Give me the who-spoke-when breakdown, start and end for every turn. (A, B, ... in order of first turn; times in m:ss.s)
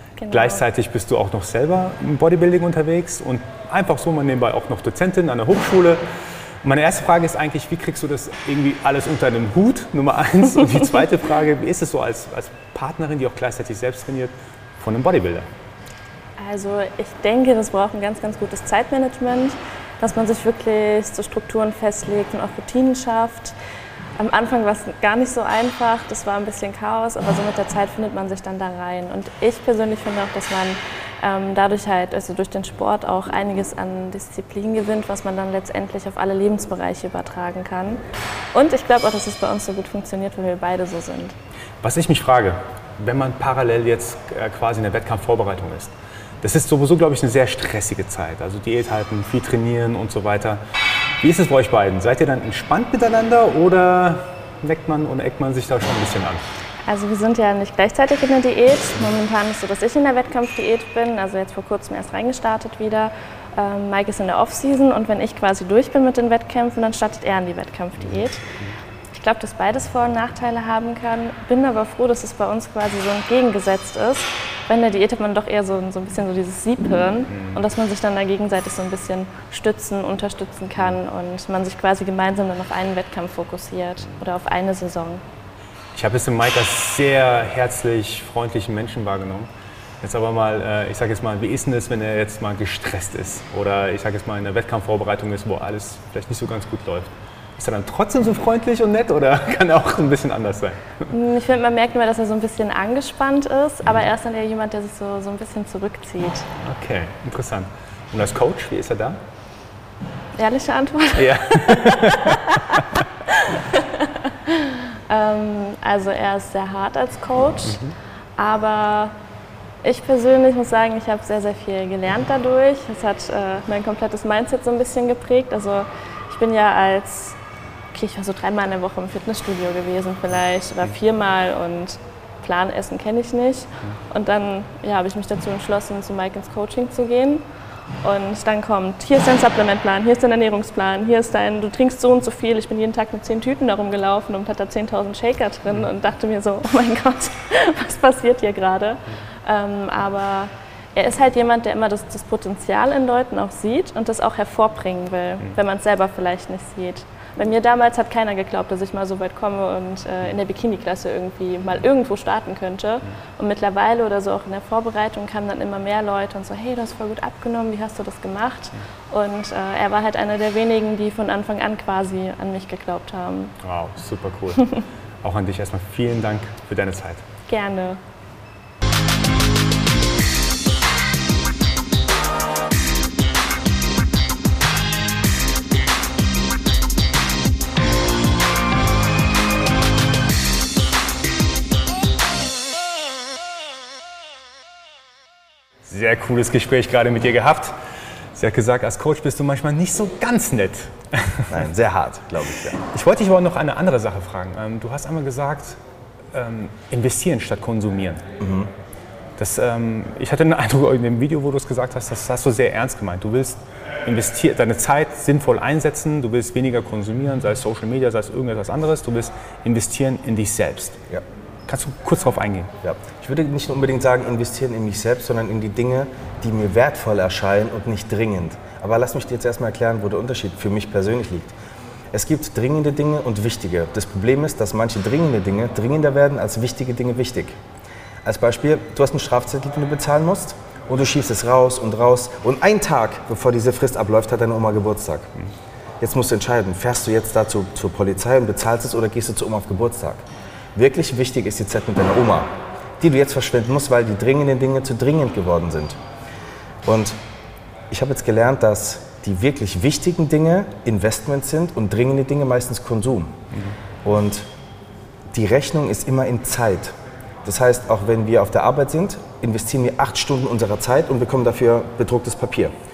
0:00.2-0:00.6 A
0:00.3-0:06.0 B
0:06.6-0:15.5 B
0:16.4-0:23.5 A
0:24.2-0:38.0 A
0:38.5-0:41.4 A
0:41.8-0:50.6 B
0:51.2-0:56.4 B
0:56.9-1:08.4 A
1:09.1-1:25.2 A
1:17.3-1:17.6 B
1:26.0-1:29.5 B
1:30.0-1:41.1 B
1:41.1-1:46.5 A
1:46.6-1:49.2 B
1:50.4-1:57.8 A
1:51.2-1:53.0 B
1:58.4-1:59.2 A
1:59.8-2:07.4 A
2:07.9-2:17.4 A
2:18.0-2:53.5 A
2:53.6-2:57.2 B
2:57.5-2:58.0 A
3:15.9-3:17.8 B
3:18.4-3:21.6 B
3:21.5-3:22.8 C
3:22.8-3:25.8 B
3:26.3-3:28.2 B
3:28.4-3:28.7 C
3:29.4-3:41.0 B
3:41.7-3:42.7 B
3:42.8-3:51.6 C
3:52.1-3:57.6 C
3:58.2-4:05.4 C
4:06.0-4:16.0 C
4:16.8-4:17.2 C
4:17.9-4:23.4 C
4:24.0-4:24.5 C
4:25.3-4:32.7 C